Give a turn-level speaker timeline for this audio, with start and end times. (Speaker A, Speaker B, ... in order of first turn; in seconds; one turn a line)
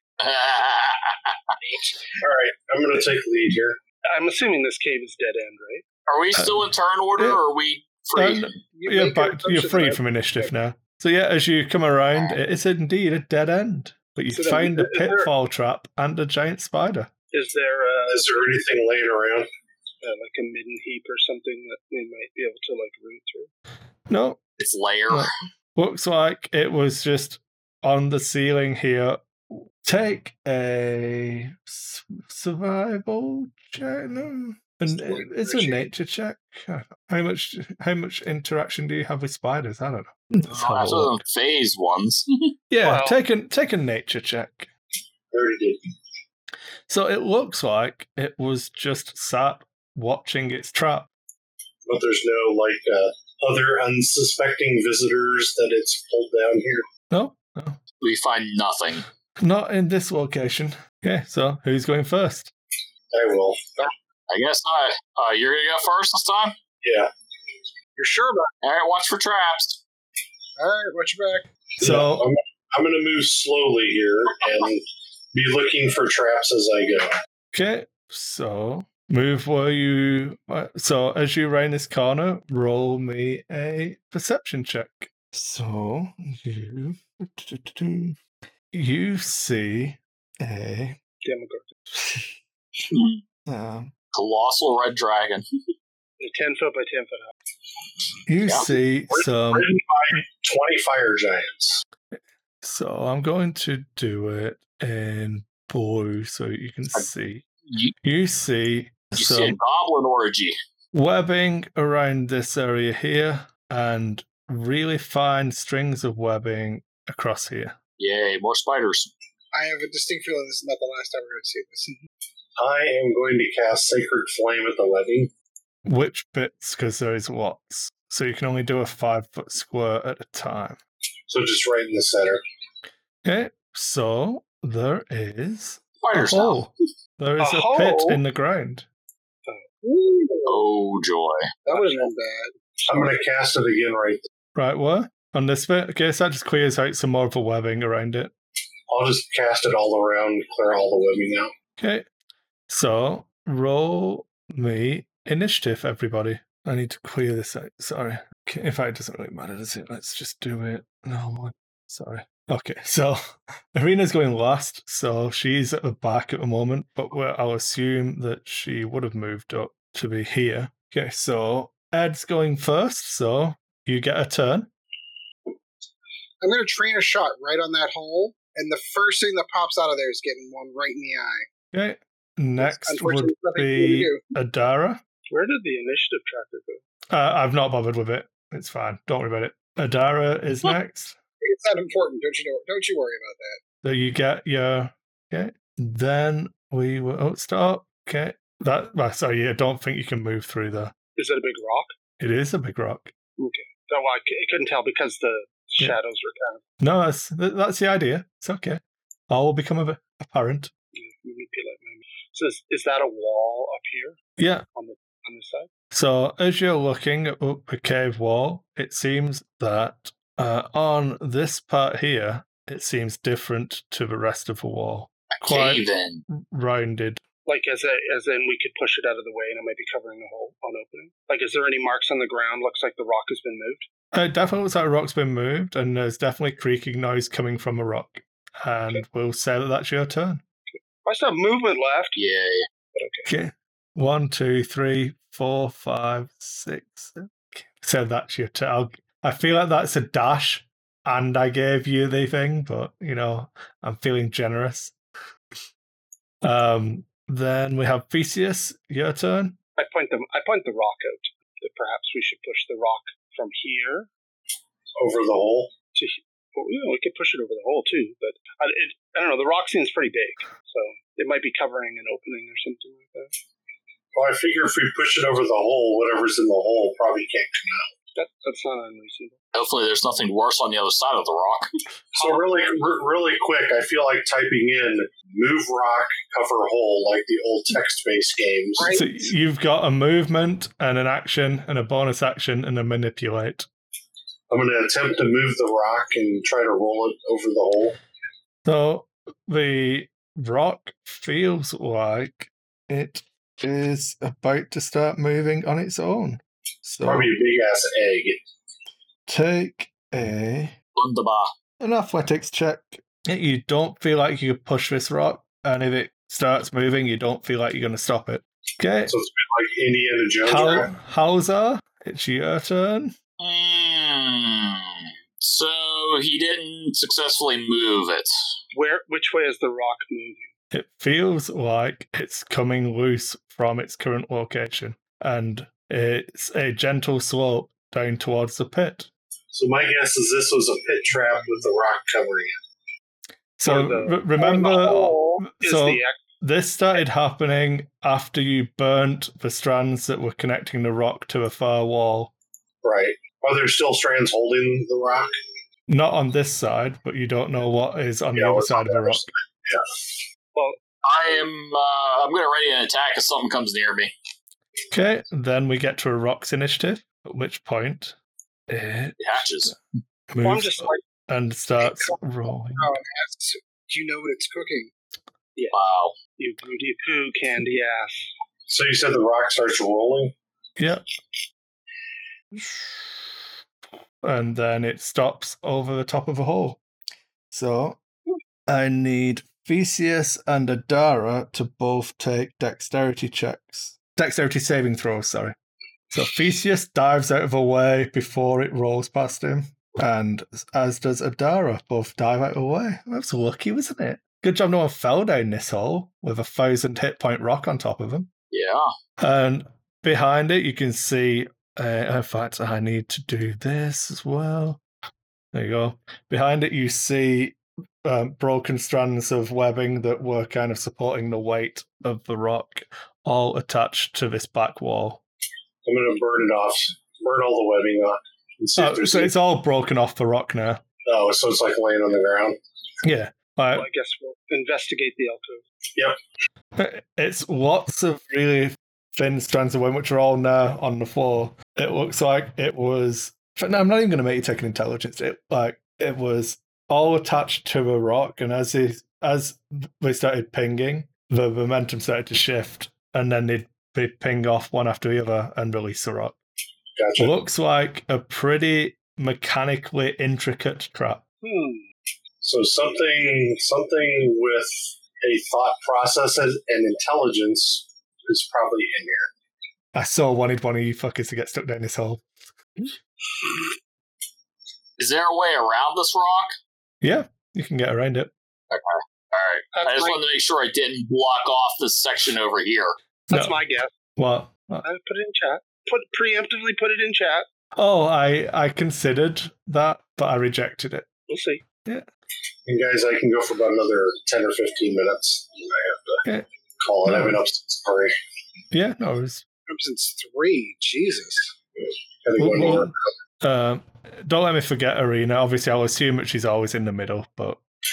Speaker A: 0.2-1.4
Speaker B: 1.6-2.1
Speaker C: 2.2-3.8
Speaker D: 4.1-5.8
Speaker A: 6.1-8.5
Speaker E: 6.3-6.6
Speaker E: 8.1-17.1
Speaker B: 8.7-10.5
Speaker D: 14.3-15.3
Speaker D: 17.3-18.6
Speaker C: 18.1-19.5
Speaker D: 20.0-23.5
Speaker E: 24.1-24.4
Speaker A: 24.6-25.3
Speaker E: 25.1-41.2
Speaker B: 34.9-35.8
Speaker A: 40.5-42.5
Speaker E: 42.7-44.7
Speaker D: 42.8-43.2
Speaker C: 45.3-45.8
Speaker E: 46.9-51.1
Speaker C: 51.9-56.9
Speaker E: 57.1-57.8
Speaker A: 58.0-59.0
Speaker E: 59.4-62.5
Speaker C: 63.1-63.9
Speaker A: 64.3-66.6
Speaker C: 66.8-67.1
Speaker B: 68.0-68.5
Speaker A: 68.6-69.8
Speaker B: 70.6-71.5
Speaker C: 71.8-77.1
Speaker E: 71.8-72.3
Speaker E: 77.5-88.2
Speaker E: 88.7-91.0
Speaker D: 91.2-91.7
Speaker E: 91.9-92.3
Speaker A: 92.9-93.2
Speaker E: 93.5-93.9
Speaker A: 94.1-95.4
Speaker D: 96.2-97.3
Speaker E: 98.3-99.7
Speaker C: 99.1-101.8
Speaker E: 102.6-107.4
Speaker E: 108.0-109.6
Speaker A: 109.2-110.6
Speaker E: 110.9-117.8
Speaker A: 118.0-119.1
Speaker B: 119.5-122.0
Speaker C: 122.6-125.3
Speaker E: 125.8-130.8
Speaker C: 131.3-132.4
Speaker E: 133.2-138.9
Speaker A: 136.0-136.6
Speaker D: 137.4-138.2
Speaker D: 139.4-139.7
Speaker B: 139.8-140.6
Speaker A: 140.5-141.4
Speaker B: 141.7-142.5
Speaker D: 141.7-142.1
Speaker C: 142.9-144.2
Speaker E: 144.5-148.3
Speaker C: 148.9-151.5
Speaker E: 151.8-152.1
Speaker E: 152.7-163.2
Speaker E: 163.7-174.7
Speaker B: 176.4-181.4
Speaker E: 181.7-185.0
Speaker B: 182.6-184.2
Speaker D: 185.3-186.8
Speaker E: 187.1-191.2
Speaker B: 191.4-193.6
Speaker E: 193.8-200.9
Speaker D: 201.2-201.9
Speaker E: 202.2-203.1
Speaker D: 203.4-206.6
Speaker E: 206.8-210.7
Speaker D: 210.9-214.2
Speaker E: 214.4-214.6
Speaker D: 214.7-215.7
Speaker E: 215.9-227.2
Speaker A: 225.3-226.2
Speaker D: 227.4-233.9
Speaker E: 234.1-240.4
Speaker D: 240.7-242.2
Speaker A: 242.2-242.7
Speaker D: 242.9-243.3
Speaker E: 243.3-254.9
Speaker E: 256.4-259.6
Speaker D: 259.8-264.1
Speaker C: 265.0-265.7
Speaker D: 265.9-273.3
Speaker C: 274.1-277.9
Speaker D: 278.1-279.4
Speaker A: 279.5-281.7
Speaker C: 282.1-288.9
Speaker D: 282.2-282.7
Speaker B: 288.8-289.3
Speaker E: 288.9-293.7
Speaker C: 294.5-298.0
Speaker E: 298.6-307.3
Speaker C: 307.0-308.4
Speaker E: 309.3-310.8
Speaker A: 310.9-311.5
Speaker E: 311.8-319.1
Speaker C: 319.1-320.9
Speaker E: 320.4-323.1
Speaker A: 323.4-328.3
Speaker D: 328.7-330.5
Speaker E: 330.7-339.1
Speaker C: 339.5-342.6
Speaker E: 343.6-352.3
Speaker D: 343.6-346.2
Speaker C: 352.8-355.4
Speaker E: 355.9-359.3
Speaker C: 358.4-360.0
Speaker A: 361.0-364.1
Speaker E: 364.9-368.1
Speaker E: 368.7-369.8
Speaker A: 369.2-369.7
Speaker E: 370.3-372.9
Speaker D: 370.4-371.0
Speaker B: 372.8-374.9
Speaker A: 375.7-376.1
Speaker D: 376.4-378.3
Speaker C: 378.7-380.4
Speaker E: 380.8-381.0
Speaker E: 382.5-383.1
Speaker E: 384.2-386.8
Speaker E: 387.5-388.0
Speaker E: 388.7-395.6
Speaker E: 396.1-408.3
Speaker A: 408.5-408.9
Speaker E: 409.2-414.8
Speaker E: 415.5-425.2
Speaker C: 425.8-429.3
Speaker E: 428.8-430.8
Speaker C: 431.1-432.6
Speaker E: 433.0-433.9
Speaker D: 433.7-435.6
Speaker E: 436.8-456.4
Speaker C: 456.9-457.3
Speaker E: 457.2-461.2
Speaker D: 461.4-461.8
Speaker C: 462.4-469.3
Speaker E: 469.9-472.2
Speaker A: 475.0-476.6
Speaker E: 477.0-478.3
Speaker A: 478.7-483.0
Speaker D: 479.7-480.2
Speaker E: 483.3-483.6
Speaker D: 483.3-483.9
Speaker E: 484.1-484.9
Speaker D: 484.8-487.4
Speaker E: 487.8-491.1
Speaker D: 491.3-491.6
Speaker C: 492.6-496.2
Speaker C: 496.8-498.1
Speaker E: 497.0-497.4
Speaker E: 498.7-499.4
Speaker B: 499.7-501.5
Speaker C: 501.8-503.1
Speaker E: 502.4-507.6